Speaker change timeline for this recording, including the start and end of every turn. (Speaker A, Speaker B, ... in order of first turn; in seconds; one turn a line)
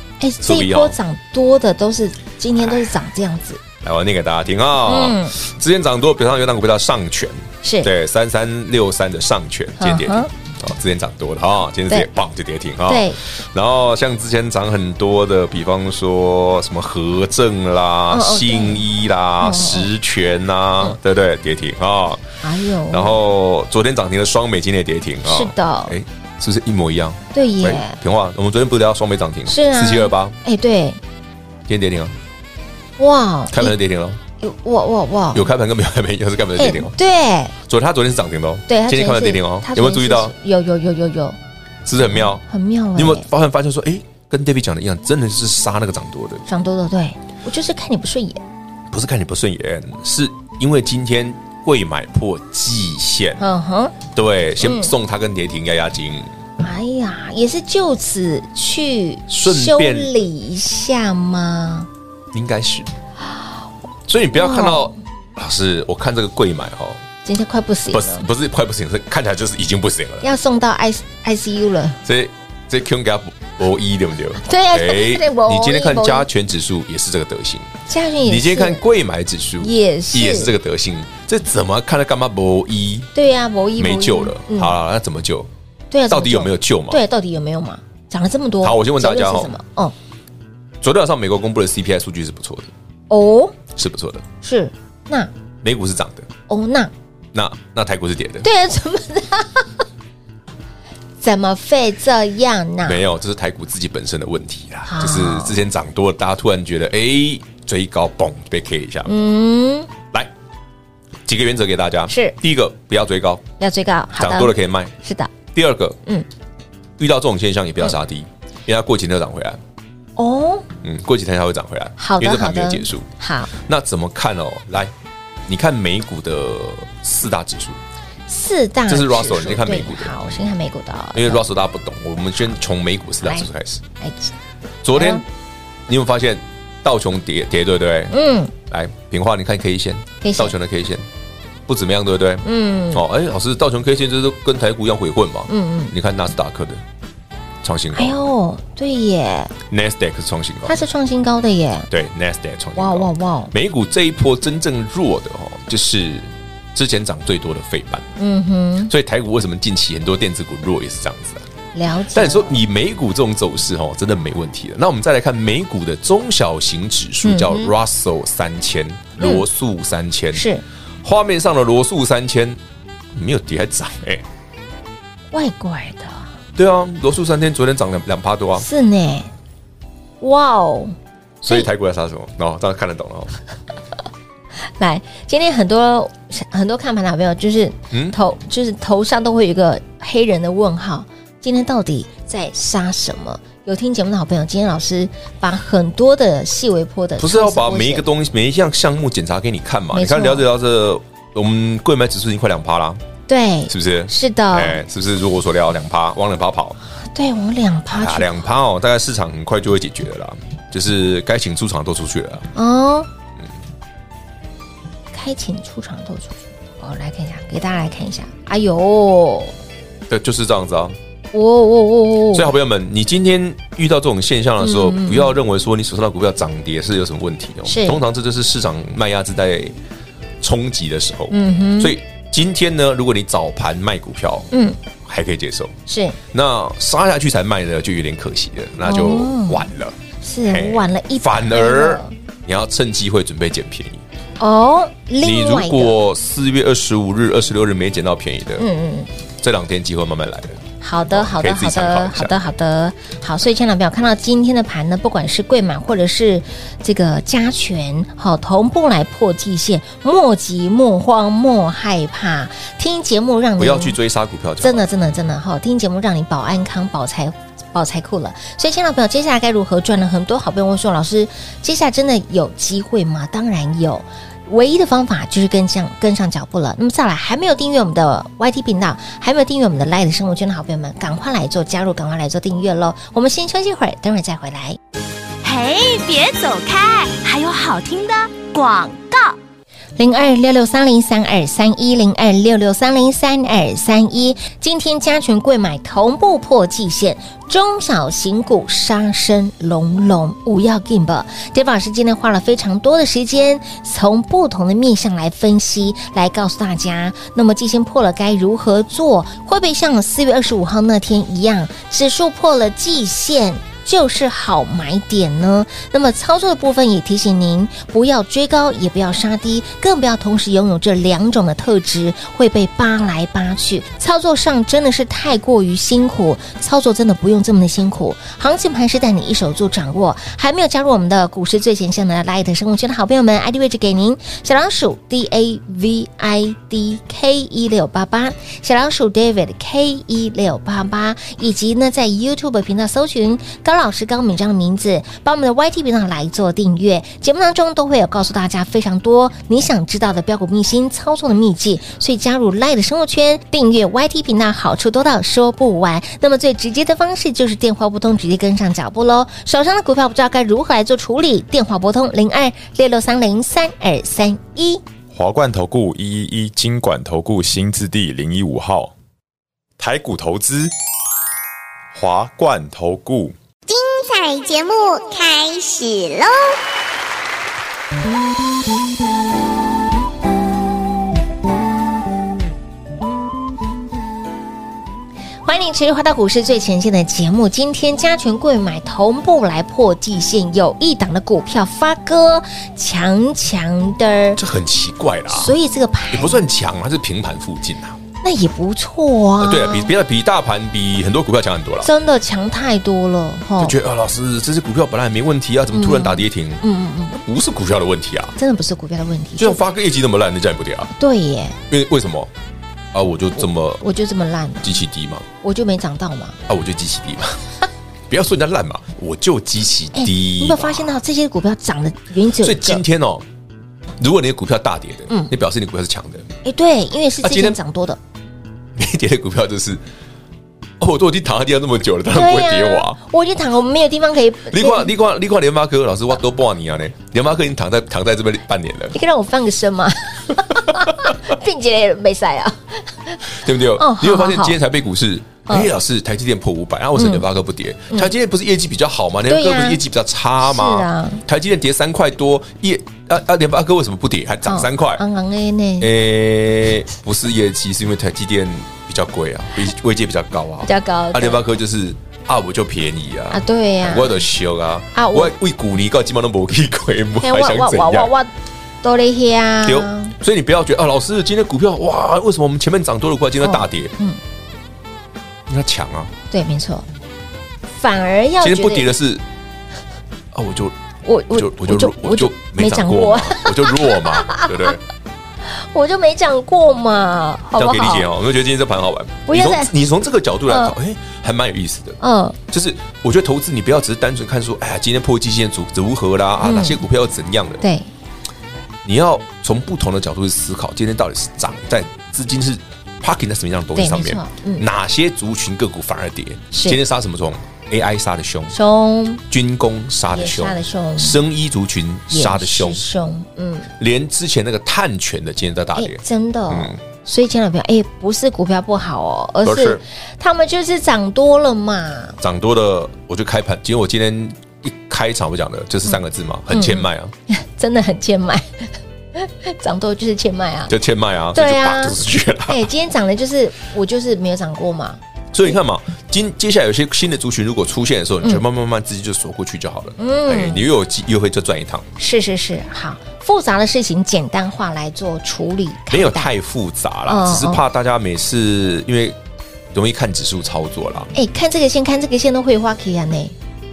Speaker A: 0.2-3.6
Speaker B: 0.4-0.9
Speaker B: 3.8-22.2
Speaker A: 4.8-5.3
Speaker A: 7.6-7.9
Speaker A: 9.8-10.3
Speaker A: 12.9-13.2
Speaker A: 18.1-18.8
Speaker A: 19.4-19.9
Speaker A: 22.4-23.2
Speaker B: 22.9-30.4
Speaker A: 25.2-26.0
Speaker A: 27.3-28.0
Speaker A: 29.5-31.0
Speaker B: 31.7-32.1
Speaker A: 33.0-33.7
Speaker B: 33.5-34.2
Speaker A: 34.4-35.5
Speaker B: 35.3-36.9
Speaker A: 36.6-37.5
Speaker B: 37.7-40.3
Speaker A: 38.7-41.4
Speaker B: 41.9-42.4
Speaker A: 42.0-43.3
Speaker B: 43.0-46.4
Speaker A: 46.5-48.4
Speaker B: 48.9-53.4
Speaker A: 53.4-54.0
Speaker B: 54.1-56.3
Speaker A: 54.6-54.9
Speaker A: 56.6-61.9
Speaker B: 59.3-60.1
Speaker B: 62.3-62.9
Speaker B: 64.1-67.0
Speaker A: 64.3-64.9
Speaker A: 67.2-68.2
Speaker B: 67.9-70.3
Speaker A: 70.2-72.0
Speaker B: 72.0-77.7
Speaker A: 74.4-76.3
Speaker A: 77.9-78.8
Speaker B: 78.2-83.1
Speaker A: 79.6-80.5
Speaker A: 83.1-84.7
Speaker B: 83.8-85.5
Speaker A: 85.9-89.9
Speaker B: 86.1-87.0
Speaker B: 88.6-89.5
Speaker B: 90.8-92.7
Speaker A: 93.1-93.5
Speaker B: 93.7-94.2
Speaker A: 94.4-95.3
Speaker B: 95.6-96.3
Speaker A: 96.5-96.9
Speaker B: 97.3-98.5
Speaker A: 98.4-99.8
Speaker A: 101.2-103.0
Speaker B: 102.8-109.1
Speaker A: 104.8-105.6
Speaker A: 109.0-109.9
Speaker B: 111.2-113.4
Speaker A: 112.1-112.3
Speaker A: 113.6-115.3
Speaker B: 114.2-114.9
Speaker B: 115.5-116.0
Speaker B: 117.0-119.6
Speaker A: 120.2-120.7
Speaker B: 120.8-124.9
Speaker A: 122.0-123.5
Speaker B: 125.5-127.8
Speaker A: 128.3-131.4
Speaker B: 128.9-130.3
Speaker B: 131.1-133.8
Speaker A: 134.0-134.3
Speaker B: 134.8-135.2
Speaker A: 134.9-135.2
Speaker B: 135.9-138.1
Speaker A: 138.1-138.5
Speaker B: 138.7-141.1
Speaker A: 140.2-140.5
Speaker B: 141.7-146.8
Speaker A: 142.4-143.0
Speaker A: 145.5-145.9
Speaker B: 147.6-148.2
Speaker A: 147.9-149.5
Speaker B: 149.7-150.8
Speaker A: 150.7-151.9
Speaker B: 151.9-158.1
Speaker A: 152.8-153.5
Speaker A: 158.2-158.9
Speaker B: 158.9-161.4
Speaker A: 161.7-162.6
Speaker B: 162.1-170.5
Speaker A: 167.2-167.7
Speaker A: 170.3-170.6
Speaker B: 171.0-172.6
Speaker B: 173.1-174.2
Speaker A: 175.3-176.3
Speaker B: 176.6-178.7
Speaker A: 178.6-179.3
Speaker A: 180.2-180.9
Speaker B: 181.4-183.3
Speaker A: 184.8-198.0
Speaker B: 187.9-188.2
Speaker B: 197.2-203.0
Speaker A: 199.9-200.4
Speaker A: 203.3-204.8
Speaker B: 203.7-206.8
Speaker A: 207.1-208.4
Speaker B: 207.9-212.5
Speaker A: 212.5-213.1
Speaker A: 215.1-219.5
Speaker B: 220.1-220.9
Speaker A: 221.3-222.5
Speaker B: 222.3-229.8
Speaker A: 224.6-225.4
Speaker A: 227.7-228.0
Speaker B: 230.4-234.5
Speaker A: 231.3-231.9
Speaker A: 234.5-234.8
Speaker B: 235.0-235.7
Speaker A: 235.9-236.2
Speaker B: 236.3-244.0
Speaker A: 238.8-239.7
Speaker A: 240.2-242.1
Speaker A: 244.4-245.9
Speaker B: 245.2-248.7
Speaker A: 248.6-249.1
Speaker B: 249.4-252.3
Speaker A: 250.8-264.0
Speaker B: 263.6-264.9
Speaker A: 264.6-284.8
Speaker C: 285.4-289.3
Speaker A: 290.0-364.8
Speaker D: 365.1-368.9
Speaker D: 369.8-370.7
Speaker D: 371.9-373.3
Speaker E: 373.7-376.6
Speaker A: 385.4-394.4
Speaker B: 394.4-395.5
Speaker A: 395.3-396.4
Speaker B: 396.1-398.0
Speaker A: 398.2-399.9
Speaker B: 399.4-401.9
Speaker A: 401.8-403.7
Speaker B: 403.6-406.6
Speaker A: 405.7-407.2
Speaker B: 407.2-408.4
Speaker A: 408.4-409.6
Speaker B: 409.4-410.9
Speaker A: 410.9-411.6
Speaker B: 411.7-412.3
Speaker B: 412.9-413.8
Speaker A: 413.8-414.8
Speaker B: 414.6-415.2
Speaker A: 415.4-416.4
Speaker B: 416.5-417.4
Speaker B: 418.1-421.0
Speaker A: 419.9-422.8
Speaker B: 422.4-423.2
Speaker B: 424.0-426.3
Speaker A: 426.4-428.0
Speaker B: 427.2-427.6
Speaker B: 428.7-429.8
Speaker B: 430.8-433.0
Speaker A: 432.1-434.9
Speaker B: 434.5-438.9
Speaker A: 438.9-444.6
Speaker B: 443.3-455.0
Speaker A: 446.9-447.2
Speaker A: 449.3-449.8
Speaker A: 450.4-451.2
Speaker A: 454.4-455.9
Speaker B: 455.8-468.1
Speaker A: 460.6-461.4
Speaker A: 463.3-464.2
Speaker A: 464.9-465.3
Speaker A: 467.2-468.3
Speaker A: 468.8-470.1
Speaker B: 469.6-473.9
Speaker A: 473.4-474.2
Speaker B: 475.5-476.1
Speaker A: 476.3-476.9
Speaker A: 477.7-478.9
Speaker B: 478.4-479.2
Speaker B: 480.3-480.7
Speaker A: 481.0-484.8
Speaker B: 481.3-484.8
Speaker A: 485.4-488.1
Speaker B: 487.6-497.6
Speaker A: 489.3-489.7
Speaker A: 490.5-490.7
Speaker A: 492.0-492.4
Speaker A: 496.4-496.8
Speaker A: 497.6-497.9
Speaker B: 498.8-508.5
Speaker A: 503.8-504.6
Speaker A: 506.5-506.8
Speaker A: 508.5-509.2
Speaker B: 509.3-512.8
Speaker A: 510.1-511.2
Speaker A: 512.1-513.7
Speaker B: 513.8-516.8
Speaker A: 515.8-522.2
Speaker B: 519.4-519.8
Speaker B: 522.2-527.1
Speaker A: 526.5-530.7
Speaker B: 530.7-532.7
Speaker A: 531.3-535.0
Speaker B: 535.3-541.9
Speaker A: 540.0-540.6
Speaker A: 542.0-546.3
Speaker B: 545.9-549.2
Speaker A: 547.1-547.6
Speaker B: 549.7-551.1
Speaker A: 551.1-553.3